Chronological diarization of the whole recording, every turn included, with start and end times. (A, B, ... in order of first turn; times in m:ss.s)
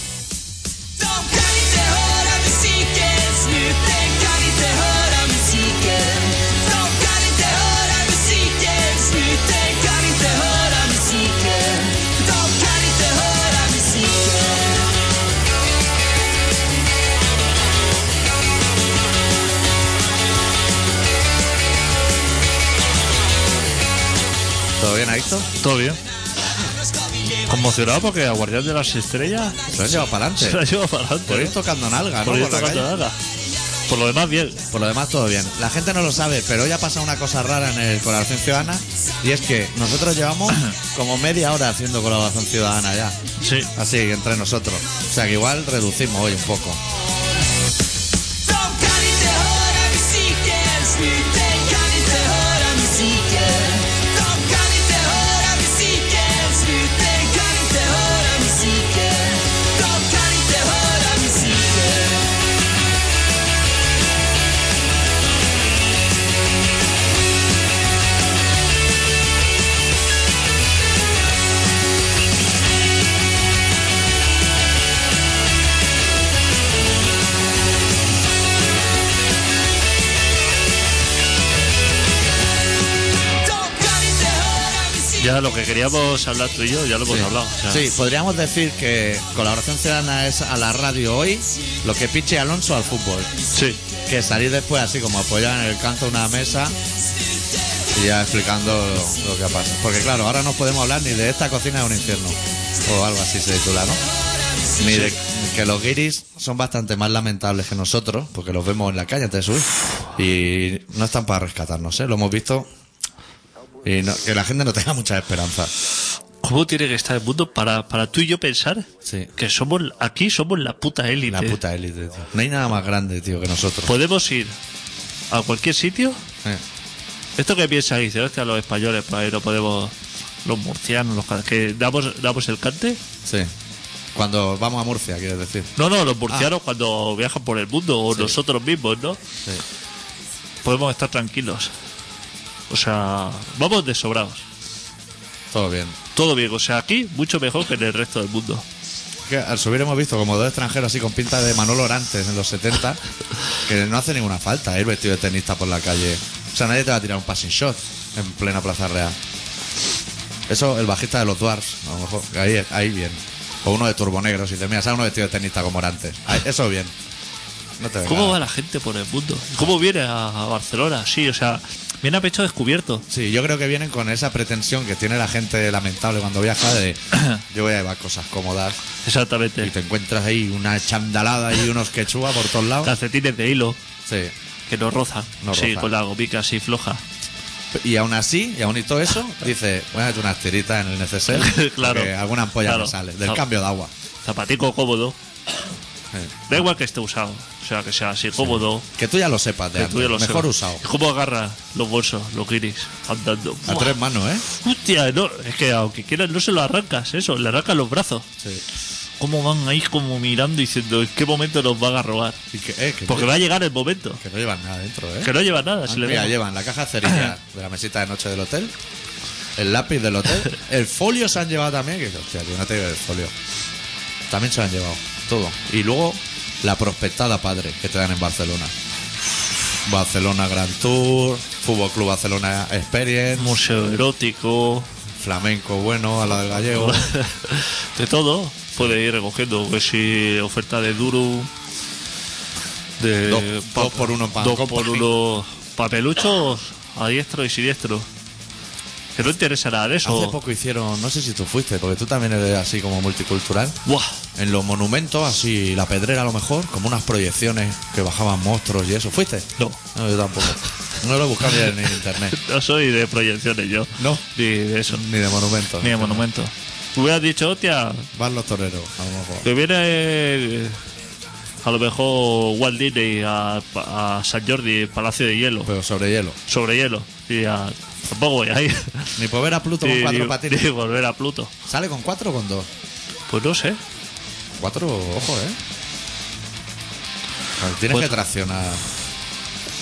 0:01.0-0:14.9 A
0:24.8-0:25.5 B
0:25.6-0:26.0 C
0:27.5-0:31.6 C
0:29.7-0:30.6 B
0:31.3-0:32.9 B
0:32.2-0:33.2 C
0:33.9-0:34.6 C
0:34.7-0:43.2 B
0:43.4-0:43.7 C
0:43.8-0:46.8 B
0:48.4-1:02.4 A
1:23.4-1:25.2 A
1:25.2-1:27.9 C
1:27.1-1:33.3 B
1:33.5-1:33.8 C
1:34.1-1:36.8 B
1:37.9-1:44.0 B
1:44.3-1:44.9 A
1:44.8-1:52.7 B
1:53.8-1:55.7 B
1:56.4-2:01.6 C
1:59.0-1:59.3 B
2:01.3-2:03.9 B
2:03.9-2:04.6 C
2:05.3-2:06.2 C
2:07.4-2:09.9 C
2:10.4-2:13.0 C
2:13.3-2:13.5 B
2:14.2-2:15.7 B
2:15.8-2:19.2 C
2:20.6-2:21.7 C
2:22.7-2:24.4 C
2:25.5-2:26.0 B
2:26.2-2:28.6 C
2:29.3-2:33.0 B
2:33.6-2:39.2 B
2:40.5-2:46.9 B
2:47.8-2:48.5 B
2:48.1-2:53.0 C
2:53.1-2:58.8 B
2:57.2-2:57.4 C
2:59.0-2:59.7 C
2:59.6-3:02.9 B
3:02.8-3:03.8 C
3:04.1-3:04.3 B
3:04.7-3:07.0 C
3:05.4-3:05.9 B
3:07.7-3:13.9 B
3:11.3-3:13.4 C
3:14.2-3:15.2 C
3:16.1-3:16.6 B
3:16.5-3:18.9 C
3:18.4-3:20.8 B
3:19.8-3:28.3 C
3:23.6-3:24.4 B
3:29.2-3:32.4 C
3:32.5-3:33.4 B
3:33.1-3:34.2 C
3:34.2-3:38.8 B
3:35.2-3:36.4 C
3:39.6-3:43.3 B
3:44.3-3:48.7 B
3:49.8-3:53.6 B
3:53.4-3:54.9 C
3:55.2-3:57.0 B
3:56.7-4:01.5 C
4:03.0-4:08.1 C
4:03.3-4:05.1 B
4:09.2-4:10.4 C
4:10.0-4:13.8 B
4:13.9-4:14.2 C
4:14.4-4:22.4 B
4:22.3-4:25.0 C
4:24.0-4:24.2 B
4:24.9-4:26.2 B
4:25.8-4:28.1 C
4:28.1-4:29.5 B
4:29.4-4:30.8 C
4:31.6-4:35.7 C
4:35.7-4:36.4 B
4:36.5-4:39.2 C
4:39.2-4:40.6 B
4:39.8-4:41.5 C
4:41.7-4:42.7 B
4:43.3-4:43.8 C
4:44.6-4:45.6 B
4:47.6-4:48.8 B
4:47.9-4:48.2 C